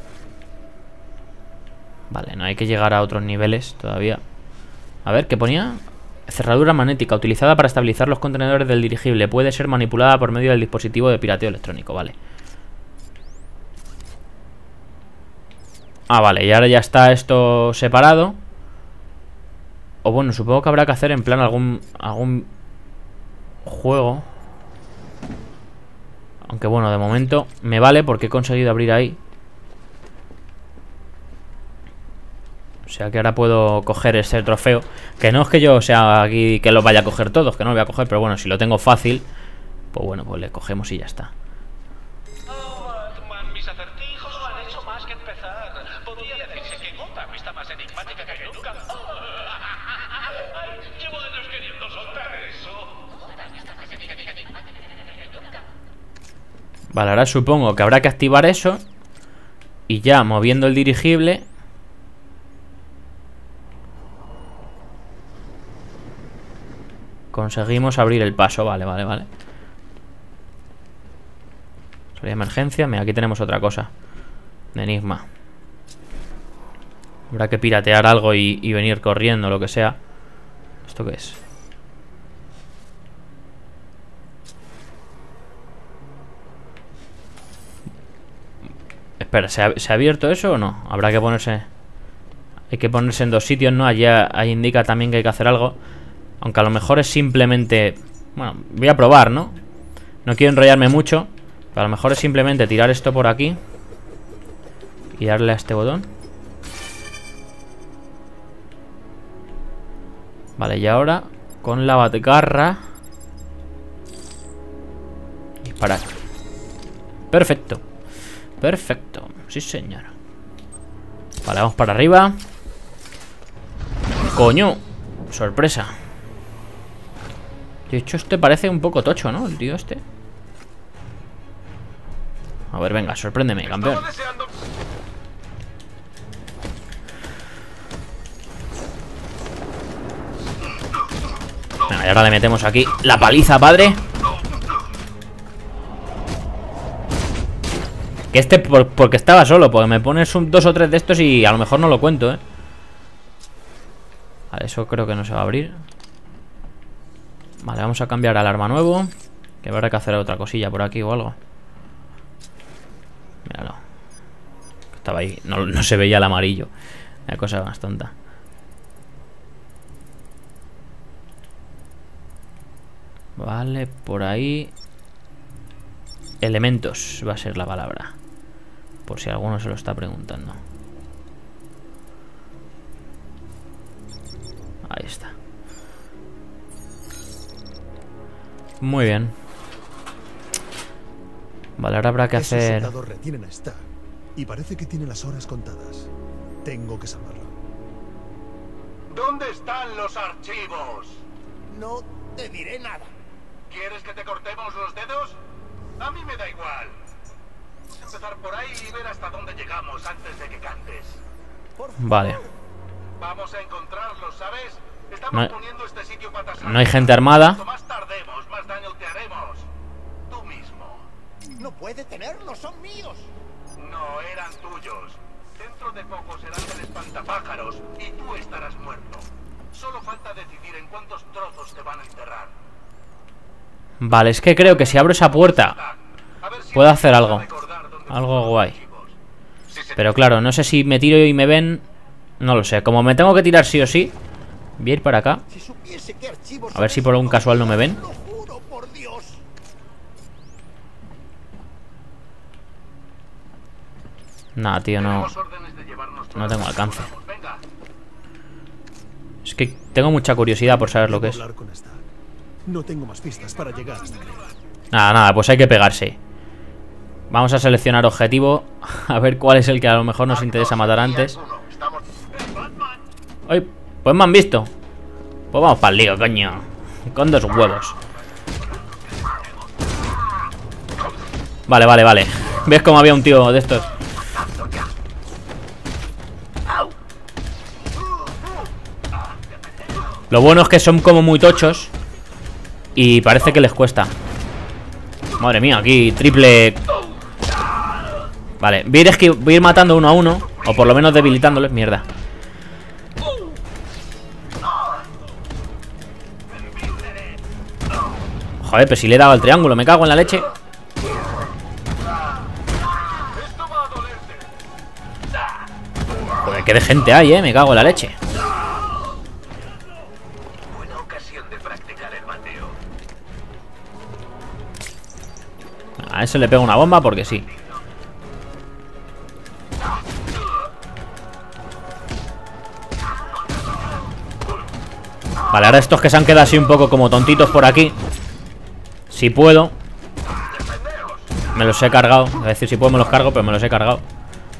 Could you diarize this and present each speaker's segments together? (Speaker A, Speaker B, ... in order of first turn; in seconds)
Speaker A: 2.1-4.2, 5.0-12.2, 16.1-18.4, 20.0-22.5, 23.6-24.3, 26.5-29.2, 32.9-39.2, 39.9-41.3, 56.9-58.8, 59.9-61.5, 67.3-69.3, 72.2-73.9, 74.7-75.2, 77.3-80.0, 80.9-81.4, 89.2-91.7, 92.7-95.8, 96.4-99.6, 100.2-103.6, 105.1-106.1, 110.6-112.8, 115.6-116.1, 117.3-117.8, 118.6-120.1, 121.5-122.4, 124.3-125.9, 127.9-130.0, 132.7-134.1, 141.9-144.0, 148.3-152.4, 154.5-155.8, 157.6-159.1, 159.6-161.4, 163.5-163.8, 165.0-166.7, 167.3-168.1, 173.4-174.7, 176.4-178.2, 179.1-180.6, 184.9-185.3, 188.8-189.3, 191.8-192.9, 212.0-212.4, 216.6-217.6, 234.0-235.8, 236.7-237.5, 238.1-238.8, 240.0-241.8, 242.4-244.2, 244.8-245.4, 246.7-248.0, 254.6-255.3, 256.4-257.1, 259.4-261.4, 264.9-266.2, 267.3-271.4, 273.5-274.7, 275.5-278.0, 281.7-283.9, 290.3-291.9, 293.0-294.1, 295.4-296.8, 298.6-302.1, 308.6-310.5, 316.4-318.2, 326.0-327.5, 335.5-337.9, 339.1-339.8, 341.5-344.1
Speaker B: 43.7-45.2, 46.4-46.7, 47.9-48.8, 51.8-52.7, 133.6-134.5, 199.1-201.2, 203.7-205.4, 206.0-207.0, 207.9-211.2, 213.2-219.7, 220.3-221.1, 223.8-232.6, 234.1-239.2, 239.7-240.1, 255.0-257.6, 263.6-264.6, 272.3-273.0, 278.7-279.4, 300.4-301.5, 306.5-307.3, 313.2-314.5, 320.7-322.7, 333.4-334.1, 340.3-341.4
Speaker C: 192.3-196.1, 196.6-197.6, 260.6-262.0, 262.7-264.4
Speaker D: 201.7-203.1, 211.8-212.5, 221.6-223.3, 245.5-249.4, 270.4-272.1